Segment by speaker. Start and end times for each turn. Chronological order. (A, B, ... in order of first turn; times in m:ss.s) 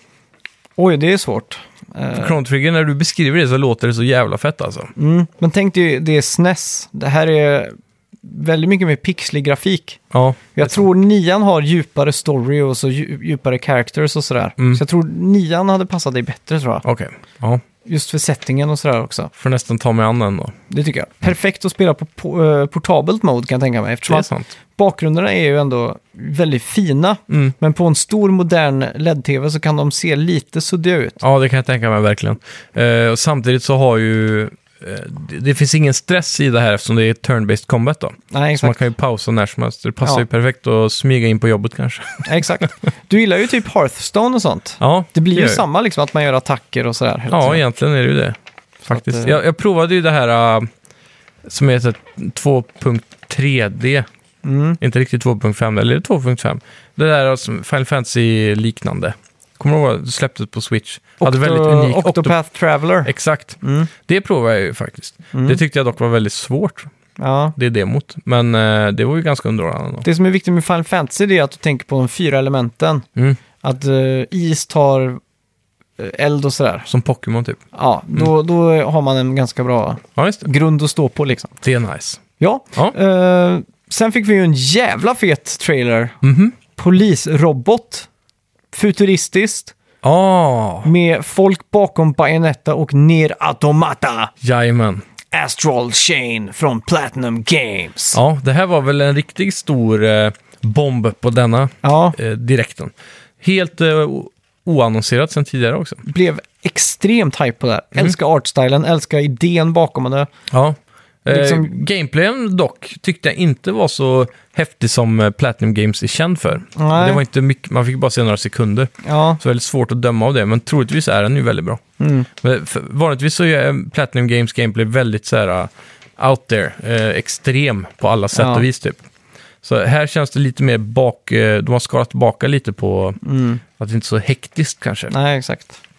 0:00.8-0:02.4 A
0:02.2-0:04.9 B
0:05.0-0:10.0 A
0:10.1-0:10.8 B
0:10.5-0:16.8 A
0:16.8-0:17.6 B
0:17.8-0:19.3 A
0:19.4-0:20.6 B
0:20.7-0:31.2 A
0:24.1-0:24.5 B
0:27.3-0:27.6 B
0:31.2-0:42.4 B
0:38.3-0:38.8 A
0:42.2-0:47.6 A
0:44.8-0:45.6 B
0:47.3-0:48.4 B
0:48.8-0:49.4 A
0:48.9-0:50.7 B
0:51.4-0:54.1 B
0:54.4-0:54.8 A
0:54.8-1:02.4 B
1:01.2-1:03.9 A
1:03.0-1:06.9 B
1:05.3-1:05.6 A
1:07.2-1:07.6 A
1:07.6-1:10.1 B
1:10.0-1:13.1 A
1:13.6-1:15.2 A
1:16.0-1:16.9 A
1:16.9-1:17.6 B
1:17.7-1:21.6 A
1:20.2-1:20.5 B
1:21.6-1:22.2 B
1:22.4-1:26.2 A
1:26.2-1:26.6 B
1:26.7-1:28.1 A
1:28.7-1:29.7 A
1:30.0-1:30.9 B
1:30.8-1:34.3 A
1:34.4-1:35.0 B
1:35.3-1:38.2 A
1:38.1-1:46.0 B
1:41.8-1:42.2 A
1:46.1-1:50.3 A
1:50.5-2:01.8 B
1:51.3-1:51.7 A
1:56.8-1:57.2 A
1:59.0-1:59.4 A
2:02.0-2:02.3 A
2:02.4-2:09.0 B
2:08.3-2:08.7 A
2:09.6-2:13.2 B
2:13.2-2:13.6 A
2:13.8-2:15.1 B
2:15.1-2:15.8 A